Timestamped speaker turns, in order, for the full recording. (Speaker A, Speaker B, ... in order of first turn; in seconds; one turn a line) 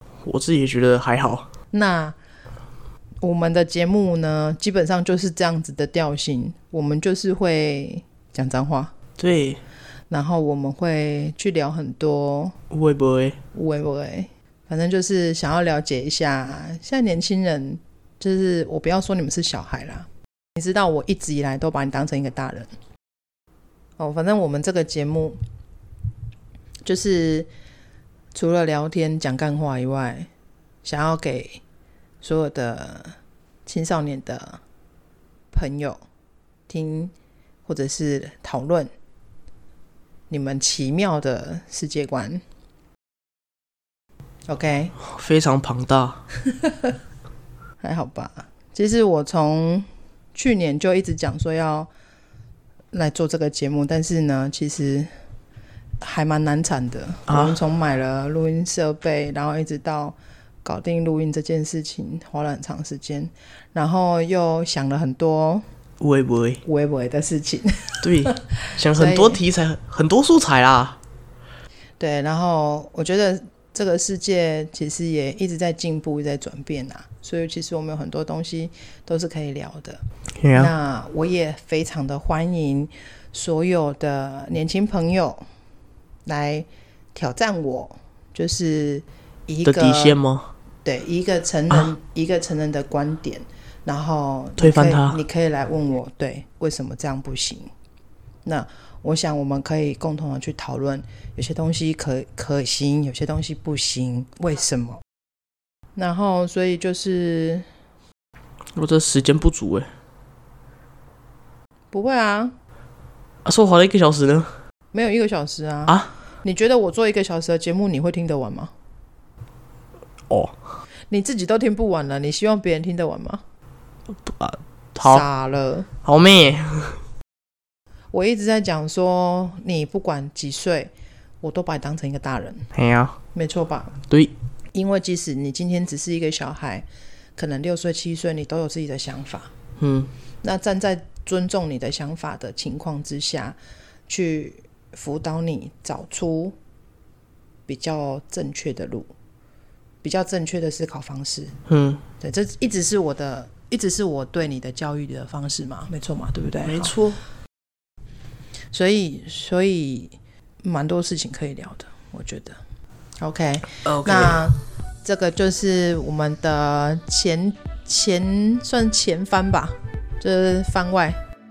Speaker A: 0.2-1.5
Speaker B: 1.7-2.1
Speaker B: 3.2-8.9
Speaker A: 9.2-9.6
Speaker B: 10.1-12.6
Speaker A: 12.7-13.4
Speaker B: 13.5-22.7
Speaker B: 24.0-25.4
Speaker B: 26.9-27.5
Speaker B: 28.3-30.3
Speaker B: 30.8-31.6
Speaker B: 32.2-33.1
Speaker B: 33.6-34.6
Speaker B: 35.5-36.0
Speaker B: 36.7-37.1
Speaker B: 37.7-38.9
Speaker B: 40.3-42.4
Speaker B: 44.5-44.9
Speaker A: 45.0-46.2
Speaker B: 46.6-46.9
Speaker B: 47.8-51.9
Speaker B: 52.9-55.1
Speaker B: 56.0-65.6
Speaker A: 57.3-57.5
Speaker A: 66.0-66.6
Speaker B: 66.6-69.4
Speaker A: 68.0-71.0
Speaker B: 72.0-80.0
Speaker A: 80.4-80.7
Speaker B: 80.5-85.4
Speaker B: 86.3-90.2
Speaker A: 89.6-90.5
Speaker B: 90.8-97.7
Speaker A: 94.6-95.2
Speaker B: 98.5-105.0
Speaker B: 106.0-107.6
Speaker A: 108.8-109.9
Speaker B: 111.9-112.5
Speaker A: 113.5-114.5
Speaker B: 114.9-118.7
Speaker A: 120.3-120.5
Speaker B: 121.1-123.4
Speaker A: 124.1-125.2
Speaker B: 125.0-125.9
Speaker A: 126.0-127.0
Speaker B: 128.1-132.7
Speaker A: 132.7-133.2
Speaker B: 133.3-133.9
Speaker B: 134.7-136.9
Speaker B: 137.4-139.5
Speaker A: 139.8-140.1
Speaker B: 140.4-143.6
Speaker B: 144.1-146.6
Speaker B: 147.7-149.1
Speaker B: 150.0-151.6
Speaker A: 151.7-152.0
Speaker B: 152.2-156.9
Speaker A: 156.6-157.2
Speaker B: 158.7-162.6
Speaker B: 163.2-171.2
Speaker A: 163.8-164.5